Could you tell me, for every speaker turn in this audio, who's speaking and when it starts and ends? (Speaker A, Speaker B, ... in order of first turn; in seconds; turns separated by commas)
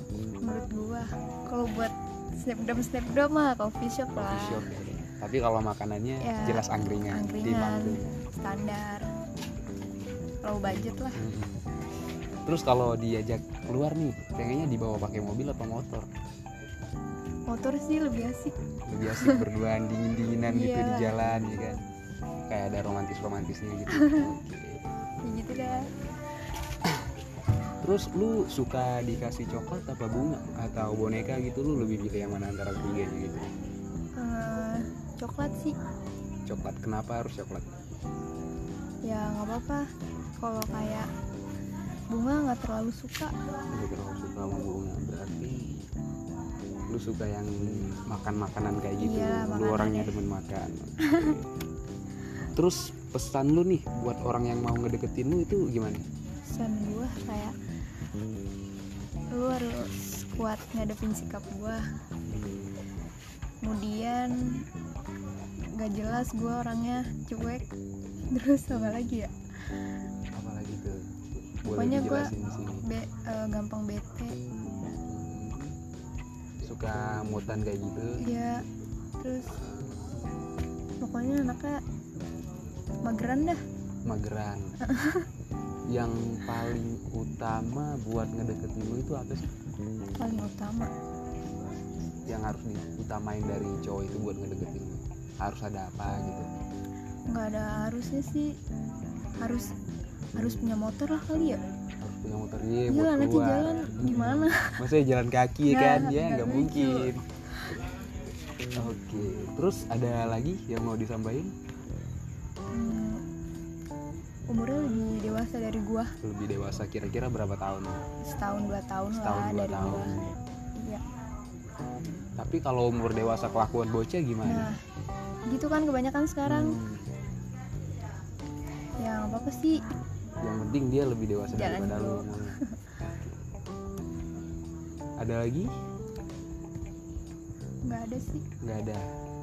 Speaker A: 0.4-4.6, Speaker B: 4.2-8.2, Speaker A: 6.2-9.1, Speaker A: 10.4-11.2, Speaker B: 11.2-11.6, Speaker B: 12.4-16.1, Speaker A: 17.5-18.5, Speaker B: 18.9-21.8, Speaker A: 19.0-19.4, Speaker A: 20.5-21.1, Speaker B: 22.5-24.8, Speaker A: 23.9-24.2, Speaker A: 25.2-25.9, Speaker B: 27.8-33.5, Speaker A: 34.2-35.7, Speaker B: 36.5-37.7, Speaker A: 39.0-39.8, Speaker A: 40.4-41.1, Speaker A: 42.1-43.3, Speaker B: 43.7-45.9, Speaker B: 46.9-51.5, Speaker A: 49.0-50.2, Speaker B: 52.5-56.0, Speaker A: 56.5-57.5, Speaker A: 59.3-61.8, Speaker B: 62.2-62.8, Speaker A: 63.6-64.6, Speaker A: 65.7-67.6, Speaker A: 68.3-69.3, Speaker B: 70.3-71.0, Speaker B: 71.6-72.9, Speaker A: 71.7-72.3, Speaker A: 72.8-74.5, Speaker B: 75.0-75.7, Speaker B: 76.6-78.2, Speaker A: 78.2-78.6, Speaker A: 79.2-79.6, Speaker A: 81.0-81.8, Speaker A: 83.0-83.6, Speaker B: 84.0-84.8, Speaker A: 84.8-85.2, Speaker B: 85.9-89.5, Speaker A: 90.2-90.9, Speaker B: 92.3-96.5, Speaker A: 97.3-98.5, Speaker A: 99.4-99.7, Speaker A: 100.3-101.6, Speaker B: 102.0-107.2, Speaker A: 102.9-104.8, Speaker A: 105.7-107.1, Speaker B: 108.7-111.5, Speaker A: 112.7-113.2, Speaker A: 114.5-116.1, Speaker B: 116.2-118.0, Speaker A: 118.2-120.2, Speaker B: 119.1-120.3, Speaker B: 122.4-124.7, Speaker A: 124.4-124.8, Speaker A: 125.5-126.8, Speaker B: 126.5-127.1, Speaker A: 129.0-129.8, Speaker B: 130.4-132.6, Speaker A: 131.5-132.8, Speaker B: 135.2-135.7, Speaker A: 137.8-138.4, Speaker B: 138.6-139.1